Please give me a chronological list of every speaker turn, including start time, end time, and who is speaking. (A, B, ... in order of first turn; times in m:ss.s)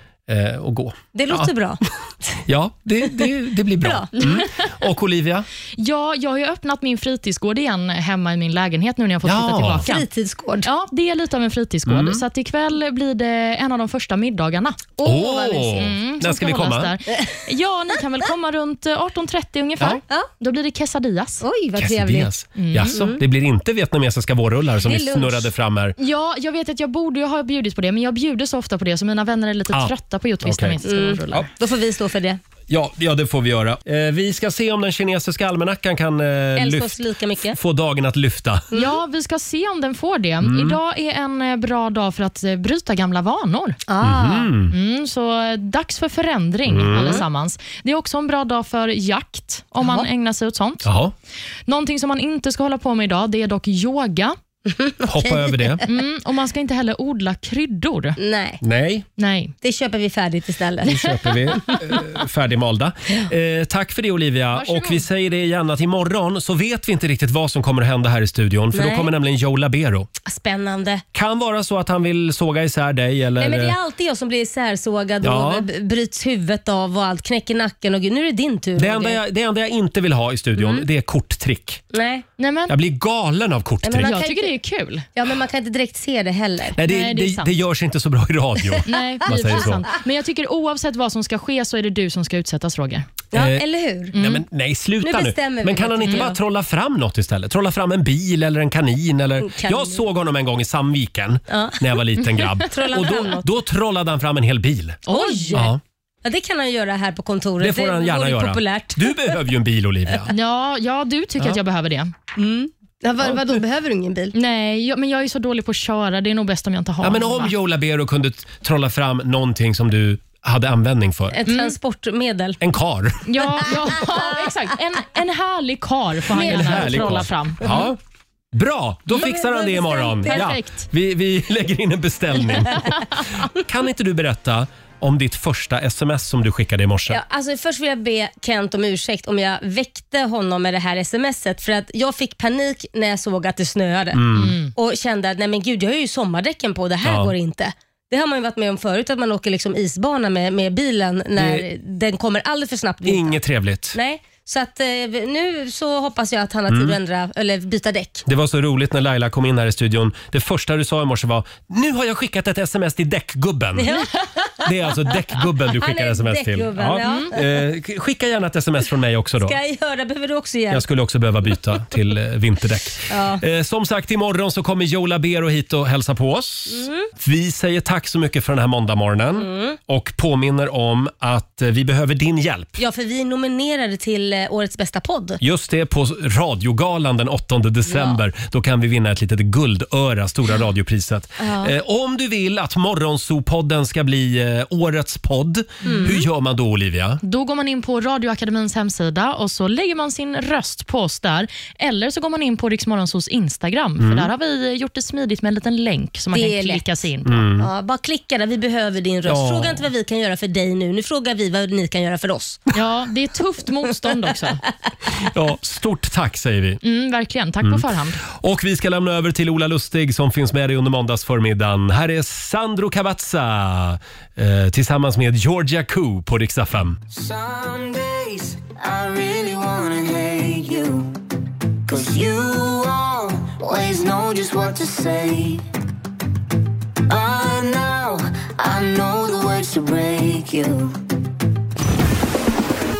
0:00.3-0:01.5 A
0:01.1-0:02.4 B
0:02.5-0:05.5 A
0:03.8-0:04.1 B
0:05.8-0:10.1 C
0:09.2-0:09.9 A
0:09.9-0:10.7 B
0:10.6-0:21.4 C
0:11.9-0:12.2 A
0:15.0-0:15.9 B
0:15.0-0:16.9 A
0:17.1-0:17.4 B
0:21.4-0:23.2 B
0:21.8-0:26.0 A
0:22.6-0:23.1 C
0:24.8-0:25.5 B
0:26.0-0:31.5 C
0:29.7-0:30.8 A
0:30.8-0:32.4 B
0:32.7-0:38.7 A
0:36.6-0:37.6 B
0:38.7-0:43.8 C
0:40.4-0:40.8 A
0:43.9-0:44.5 B
0:44.0-0:44.7 A
0:44.7-0:50.9 C
0:46.7-0:47.2 A
0:49.8-0:50.1 B
0:50.8-0:51.1 A
0:51.7-0:54.4 C
0:54.7-0:55.6 B
0:55.0-0:55.8 A
0:55.8-0:58.2 C
0:58.2-0:58.6 B
0:58.6-0:59.1 A
0:59.2-0:59.5 C
0:59.6-1:01.8 B
1:00.8-1:10.1 A
1:04.5-1:05.0 C
1:08.7-1:09.1 B
1:10.3-1:11.0 B
1:11.1-1:13.8 A
1:13.4-1:19.2 B
1:15.2-1:15.7 A
1:18.8-1:21.8 A
1:20.6-1:20.8 B
1:21.9-1:22.2 B
1:22.4-1:22.8 C
1:22.7-1:24.1 A
1:23.8-1:24.6 B
1:24.0-1:25.0 C
1:25.2-1:26.8 B
1:26.8-1:29.9 A
1:26.8-1:27.5 C
1:28.9-1:33.1 C
1:33.3-1:34.2 B
1:33.3-1:45.0 A
1:34.2-1:34.4 C
1:35.0-1:36.4 B
1:39.4-1:40.0 B
1:41.5-1:41.9 B
1:42.4-1:42.6 C
1:42.7-1:43.5 B
1:45.1-1:45.7 C
1:45.1-1:49.4 B
1:45.5-1:45.8 A
1:47.6-1:50.3 A
1:50.3-1:52.1 C
1:52.4-1:54.4 B
1:54.4-1:57.5 C
1:57.0-2:01.4 A
2:01.3-2:02.6 B
2:01.5-2:01.8 C
2:02.6-2:03.3 A
2:03.3-2:07.9 C
2:06.3-2:07.8 B
2:06.3-2:08.0 A
2:08.5-2:17.2 A
2:09.3-2:10.4 B
2:09.7-2:10.9 C
2:17.1-2:33.4 B
2:24.1-2:24.6 A
2:24.3-2:24.7 C
2:27.0-2:27.3 A
2:31.4-2:31.7 A
2:33.1-2:34.0 A
2:33.9-2:38.2 B
2:36.7-2:37.0 A
2:38.3-2:44.0 A
2:43.8-2:47.4 B
2:44.6-2:49.6 A
2:47.0-2:47.3 C
2:49.4-2:50.8 B
2:50.7-3:02.8 A
2:53.1-2:53.4 B
2:56.7-2:57.1 B
2:59.3-2:59.8 B
3:02.8-3:05.4 B
3:05.4-3:17.2 A
3:07.9-3:08.2 B
3:11.4-3:11.7 B
3:15.8-3:16.1 C
3:15.8-3:16.2 B
3:17.2-3:27.4 C
3:24.0-3:24.3 A
3:26.3-3:26.8 B
3:27.2-3:27.7 A
3:27.6-3:32.6 B
3:29.3-3:29.9 A
3:32.7-3:34.6 C
3:35.2-3:36.8 A
3:36.8-3:38.2 C
3:37.6-3:47.0 A
3:47.1-3:51.1 D
3:51.9-3:55.6 D
3:57.1-4:01.0 D